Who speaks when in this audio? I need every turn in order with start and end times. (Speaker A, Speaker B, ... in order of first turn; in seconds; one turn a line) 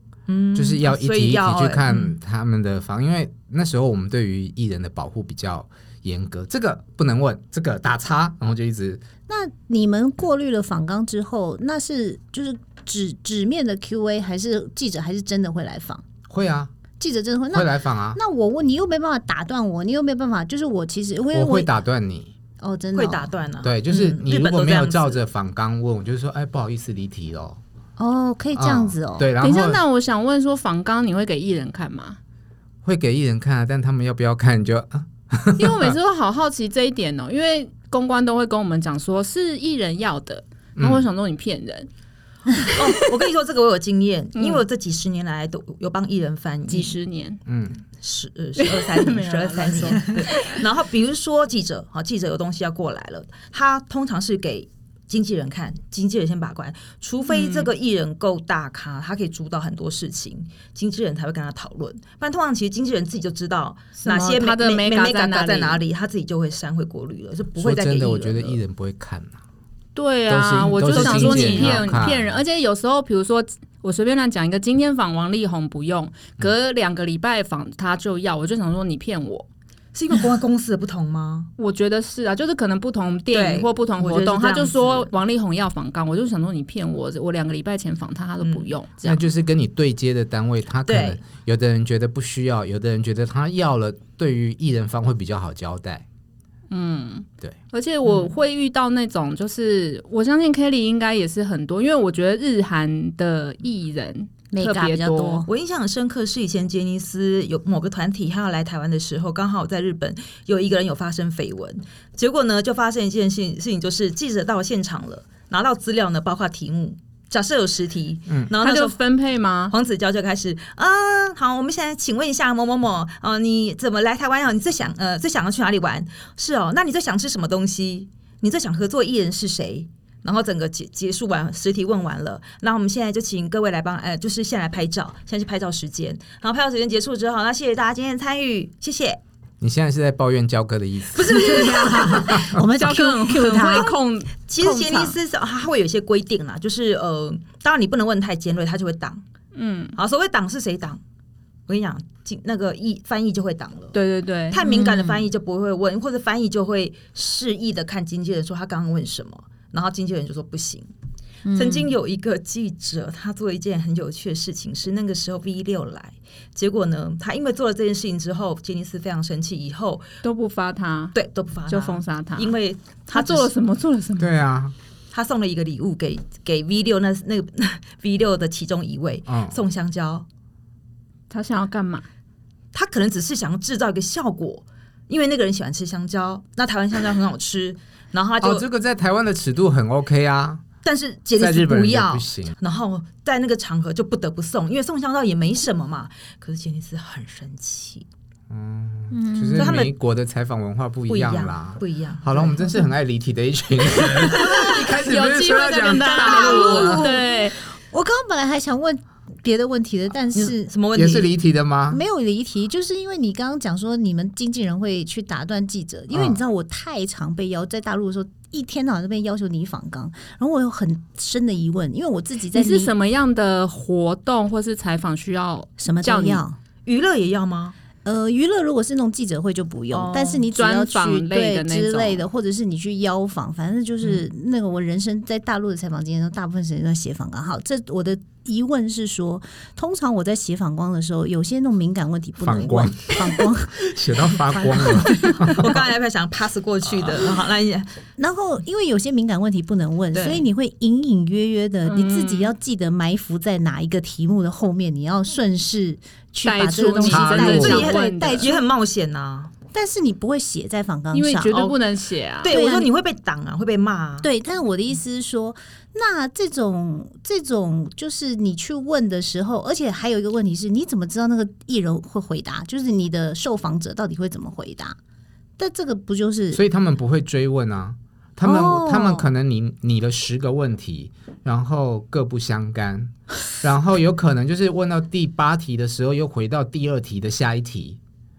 Speaker A: 0.3-2.1
Speaker B: 0.5-9.0
Speaker C: 9.3-16.0
Speaker B: 16.3-16.7
Speaker C: 17.0-21.7
Speaker B: 17.5-18.2
Speaker B: 21.3-22.3
Speaker C: 22.6-23.3
Speaker A: 22.9-25.2
Speaker B: 23.6-27.6
Speaker C: 28.0-29.3
Speaker B: 28.5-29.8
Speaker D: 29.4-32.2
Speaker B: 32.8-36.0
Speaker D: 35.6-41.9
Speaker B: 40.8-41.1
Speaker A: 42.7-47.0
Speaker D: 44.4-44.6
Speaker D: 46.7-47.4
Speaker B: 47.5-47.8
Speaker A: 48.0-68.6
Speaker D: 48.5-50.5
Speaker D: 57.3-57.7
Speaker D: 64.0-65.8
Speaker B: 67.6-69.4
Speaker D: 69.9-79.5
Speaker B: 70.3-72.3
Speaker A: 70.9-71.9
Speaker A: 79.9-81.5
Speaker D: 81.6-89.2
Speaker A: 83.3-85.1
Speaker A: 88.4-88.7
Speaker B: 89.0-96.0
Speaker A: 90.8-91.2
Speaker D: 96.7-105.4
Speaker A: 98.0-98.3
Speaker C: 104.5-105.5
Speaker A: 105.5-119.0
Speaker D: 118.6-119.7
Speaker A: 119.7-139.2
Speaker B: 139.6-142.6
Speaker A: 141.1-142.3
Speaker C: 141.3-144.0
Speaker D: 142.7-144.3
Speaker A: 144.5-149.2
Speaker C: 144.6-145.2
Speaker D: 149.5-149.9
Speaker A: 150.0-151.0
Speaker A: 151.7-153.9
Speaker D: 153.9-154.6
Speaker A: 154.5-160.9
Speaker C: 154.6-155.3
Speaker C: 161.4-161.9
Speaker A: 161.5-170.0
Speaker D: 170.2-171.1
Speaker A: 171.1-173.5
Speaker D: 171.7-172.5
Speaker D: 173.1-174.3
Speaker B: 174.2-174.7
Speaker A: 175.1-180.2
Speaker B: 179.3-179.5
Speaker D: 181.3-182.1
Speaker A: 182.7-188.6
Speaker B: 188.4-190.6
Speaker A: 190.8-198.1
Speaker B: 191.4-192.5
Speaker B: 198.5-207.1
Speaker C: 199.1-199.7
Speaker A: 199.5-199.9
Speaker A: 201.1-202.8
Speaker D: 204.2-207.6
Speaker A: 206.1-207.0
Speaker C: 206.4-210.7
Speaker A: 210.3-211.3
Speaker B: 210.9-212.0
Speaker C: 211.9-222.9
Speaker B: 216.1-216.4
Speaker D: 222.5-226.4
Speaker C: 225.8-226.6
Speaker A: 226.8-227.7
Speaker C: 228.0-245.8
Speaker A: 229.9-230.5
Speaker D: 230.5-232.2
Speaker B: 242.4-245.8
Speaker A: 245.3-247.9
Speaker C: 248.2-258.6
Speaker A: 250.1-250.4
Speaker D: 251.9-252.5
Speaker D: 256.4-258.5
Speaker B: 257.1-257.9
Speaker A: 257.3-259.5
Speaker C: 259.7-261.6
Speaker D: 261.1-262.5
Speaker A: 261.5-261.8
Speaker A: 262.4-264.3
Speaker C: 262.5-262.9
Speaker C: 264.2-275.0
Speaker C: 275.6-276.6
Speaker B: 276.5-288.0
Speaker C: 278.4-279.3